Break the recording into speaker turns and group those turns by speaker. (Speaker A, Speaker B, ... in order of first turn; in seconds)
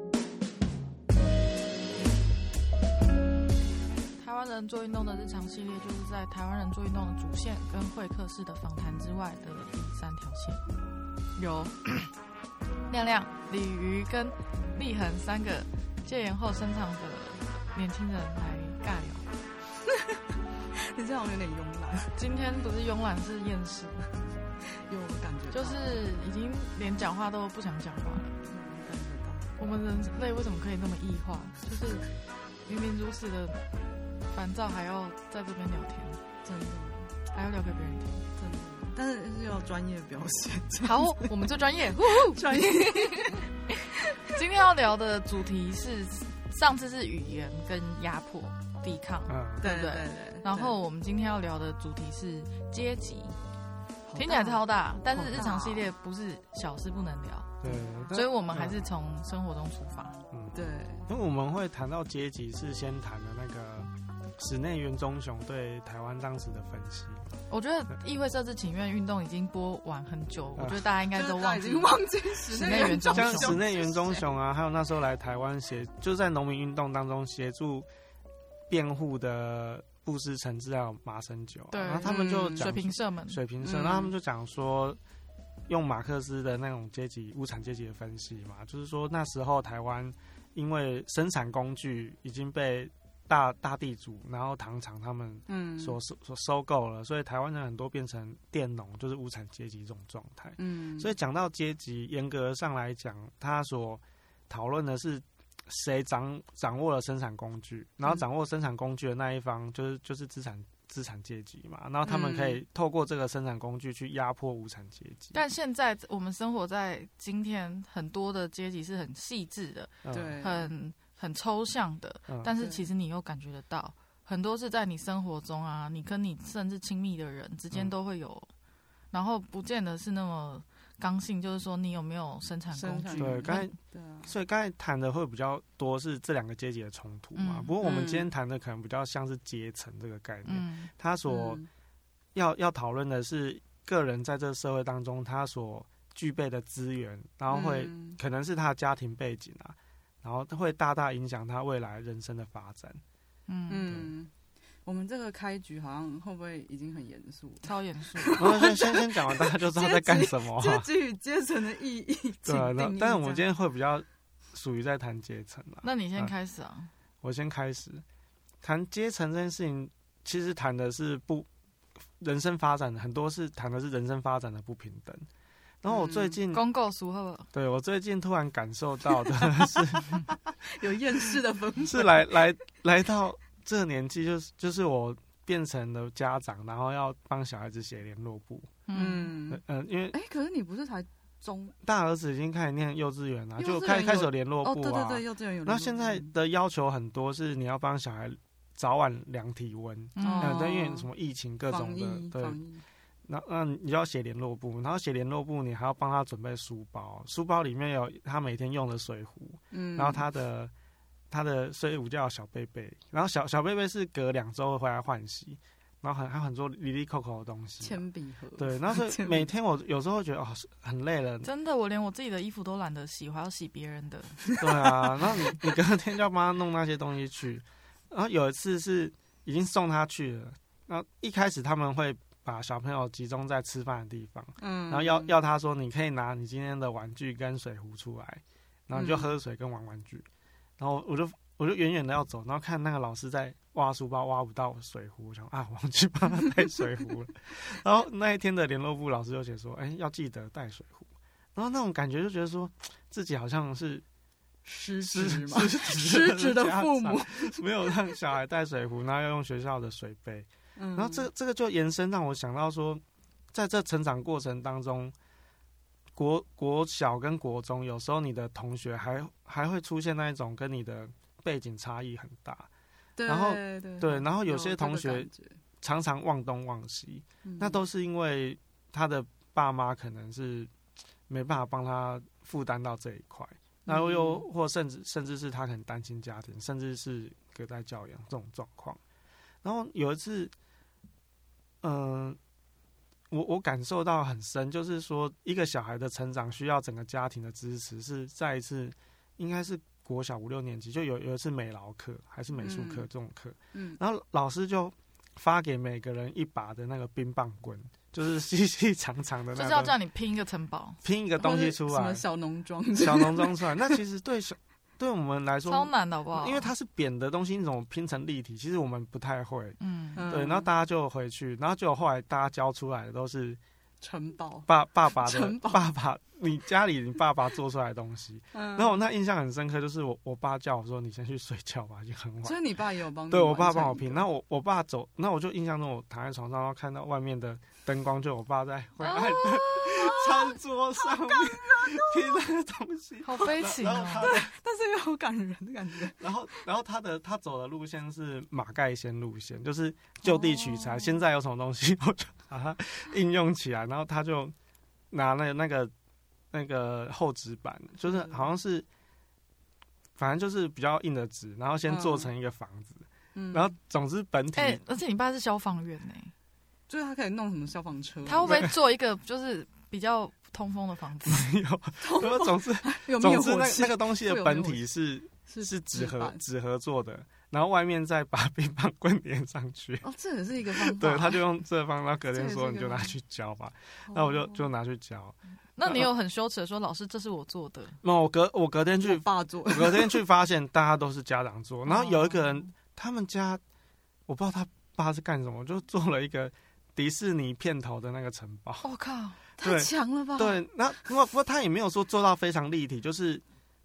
Speaker A: 4.2-10.6, 11.4-11.9, 12.9-19.3, 22.1-24.1, 25.5-28.4, 29.6-32.1, 32.7-33.6, 34.3-36.2, 37.3-38.3, 40.8-43.4, 44.3-53.4, 54.1-57.6, 58.1-60.2, 67.5-73.6, 81.7-83.4, 115.3-128.5, 129.1-133.7, 137.3-137.7, 140.4-140.9, 153.5-153.9, 157.6-158.6, 165.8-166.9, 176.5-177.5, 188.9-189.3, 200.2-200.7, 221.4-224.4, 309.5-311.0, 315.7-316.7, 319.8-320.2, 343.2-344.3, 364.6-366.3, 368.2-371.5, 385.8-388.0, 391.9-392.4, 398.8-399.4
Speaker B: 19.9-20.2, 20.8-22.2, 24.9-25.8, 28.5-29.6, 36.5-37.1, 38.4-41.3, 42.0-43.5, 49.6-50.8, 54.1-55.9, 57.6-58.1, 60.5-61.1, 71.1-74.3, 82.0-82.8, 83.6-84.1, 95.5-96.0, 100.6-101.1, 112.0-112.6, 120.1-120.7, 122.6-122.9, 132.7-134.3, 137.8-138.3, 141.3-141.7, 147.5-148.2, 153.7-154.3, 154.9-163.4, 175.9-176.4, 179.6-180.0, 180.6-182.3, 188.9-191.8, 193.6-196.3, 200.2-201.1, 201.7-202.8, 209.7-210.2, 217.8-219.5, 224.4-225.7, 234.6-235.3, 238.9-239.3, 254.7-258.2, 260.8-261.3, 273.2-275.6, 277.4-277.8, 283.9-284.5, 302.6-303.1, 303.7-304.0, 311.4-314.0, 320.1-320.7, 324.0-325.9, 328.5-329.0, 332.4-334.2, 339.1-342.4, 344.2-346.3, 350.2-351.2, 358.1-358.5, 361.9-362.3, 363.4-363.7, 366.9-368.7, 372.0-374.8, 375.5-376.4, 380.0-381.4, 382.3-383.2, 384.1-384.7, 389.0-390.2, 399.6-400.6
Speaker C: 49.3-49.7, 57.6-58.9, 60.3-67.3, 70.6-70.8, 73.1-77.9, 78.7-85.0, 85.7-115.4, 120.0-120.4, 133.2-141.6, 142.3-153.0, 158.4-160.9, 162.5-166.3, 167.2-168.0, 168.6-171.5, 172.2-175.3, 175.8-176.6, 177.5-180.2, 181.9-188.8, 189.5-190.2, 191.8-202.6, 203.3-210.7, 211.3-218.0, 218.6-221.5, 224.6-240.3, 240.8-254.1, 255.0-263.0, 263.5-265.1, 266.2-272.7, 273.3-275.3, 275.8-280.7, 281.3-289.0, 289.6-290.5, 291.8-292.4, 293.3-309.9, 311.0-312.2, 313.0-323.6, 324.7-332.6, 333.3-344.5, 346.2-354.5, 355.1-355.9, 356.5-358.9, 360.2-364.8, 368.4-368.7, 371.2-380.1, 380.7-386.1, 388.0-393.6, 394.3-398.9, 399.6-403.4